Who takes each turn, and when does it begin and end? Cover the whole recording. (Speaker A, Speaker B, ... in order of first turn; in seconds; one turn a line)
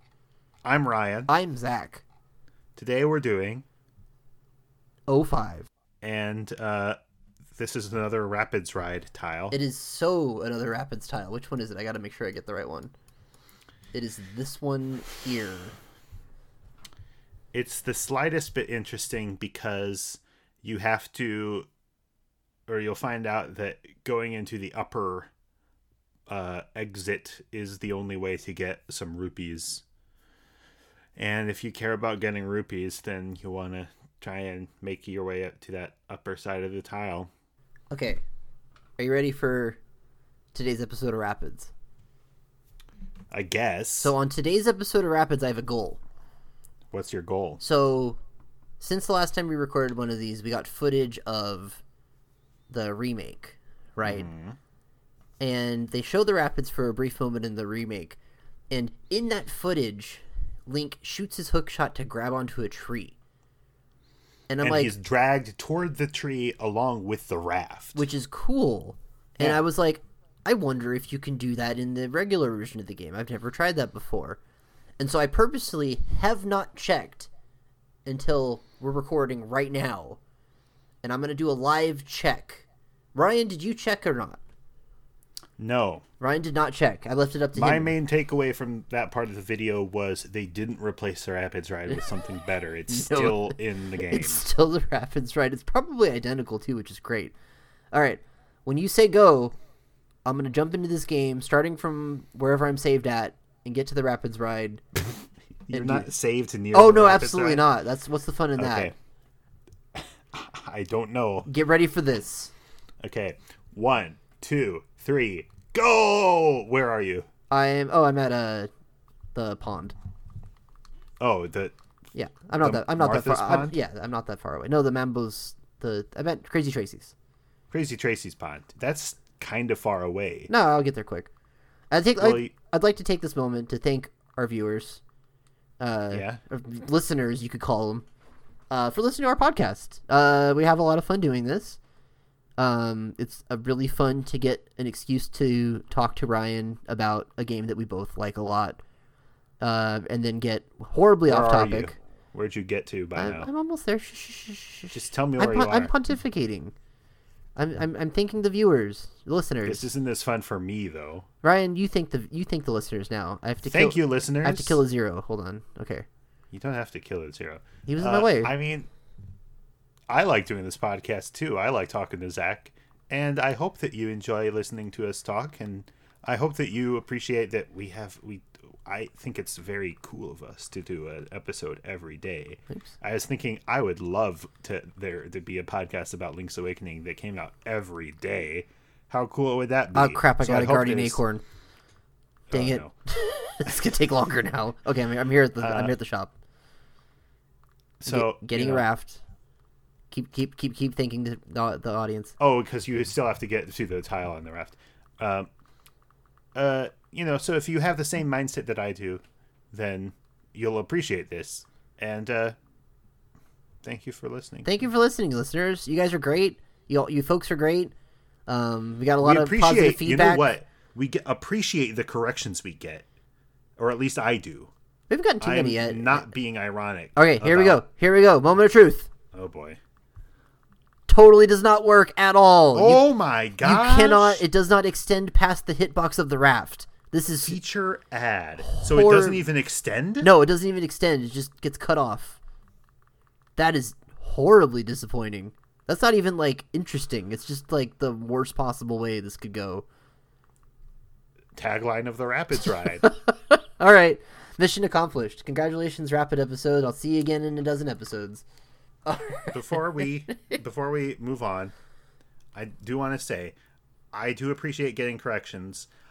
Speaker A: 0.6-1.3
Speaker B: 1.3-2.0
Speaker A: 2.8-3.6
Speaker B: 5.1-5.7
Speaker A: 6.0-7.0
Speaker A: 7.5-9.6
Speaker B: 9.5-12.9
Speaker B: 13.9-15.7
Speaker A: 17.5-21.7
Speaker A: 22.7-25.3
Speaker A: 26.3-29.8
Speaker A: 31.1-37.3
Speaker B: 37.9-38.2
Speaker B: 39.0-39.8
Speaker B: 40.5-41.7
Speaker A: 43.3-44.1
Speaker B: 44.0-46.0
Speaker A: 46.9-47.6
Speaker B: 47.6-48.2
Speaker B: 48.8-51.8
Speaker B: 52.7-54.3
Speaker A: 54.0-54.6
Speaker B: 55.4-58.2
Speaker B: 58.7-63.1
Speaker B: 64.5-64.9
Speaker A: 64.6-68.0
Speaker B: 67.9-74.4
Speaker B: 75.0-77.3
Speaker B: 78.0-80.2
Speaker B: 81.0-84.4
Speaker A: 85.6-86.0
Speaker B: 86.2-88.0
Speaker A: 87.5-94.5
Speaker B: 92.9-97.3
Speaker B: 97.9-99.5
Speaker B: 100.2-105.0
Speaker B: 105.7-106.1
Speaker A: 105.7-107.7
Speaker B: 106.7-108.9
Speaker A: 108.6-108.9
Speaker A: 109.9-111.5
Speaker B: 111.5-112.5
Speaker A: 113.0-117.3
Speaker B: 117.5-118.7
Speaker B: 119.3-119.9
Speaker A: 121.2-121.7
Speaker B: 122.1-127.1
Speaker A: 122.6-123.8
Speaker A: 127.7-130.5
Speaker B: 130.5-131.3
Speaker B: 131.9-135.0
Speaker A: 132.2-132.5
Speaker B: 135.8-138.0
Speaker A: 136.1-136.4
Speaker B: 138.7-141.8
Speaker B: 142.6-148.8
Speaker B: 149.6-151.9
Speaker A: 151.2-153.5
Speaker B: 153.2-156.7
Speaker A: 154.9-155.9
Speaker B: 157.6-159.9
Speaker A: 159.7-161.2
Speaker B: 161.4-166.1
Speaker A: 163.7-164.8
Speaker A: 166.5-168.9
Speaker B: 167.9-168.5
Speaker A: 170.1-191.2
Speaker B: 189.9-191.4
Speaker A: 192.5-192.9
Speaker B: 192.5-196.3
Speaker A: 195.6-195.9
Speaker A: 198.0-198.8
Speaker B: 198.1-199.2
Speaker B: 200.1-202.3
Speaker A: 202.4-205.5
Speaker A: 206.5-212.6
Speaker A: 213.8-214.7
Speaker B: 214.6-217.9
Speaker B: 218.5-220.5
Speaker A: 219.2-223.1
Speaker A: 223.8-224.7
Speaker B: 225.1-226.2
Speaker A: 225.4-227.8
Speaker B: 227.2-229.1
Speaker A: 229.3-229.8
Speaker B: 231.1-237.6
Speaker A: 232.7-234.4
Speaker A: 237.4-240.3
Speaker B: 238.6-239.5
Speaker B: 240.2-242.4
Speaker B: 243.6-249.8
Speaker A: 251.6-253.1
Speaker B: 253.0-258.4
Speaker B: 259.1-260.0
Speaker A: 259.5-261.7
Speaker A: 262.5-263.5
Speaker A: 264.1-265.9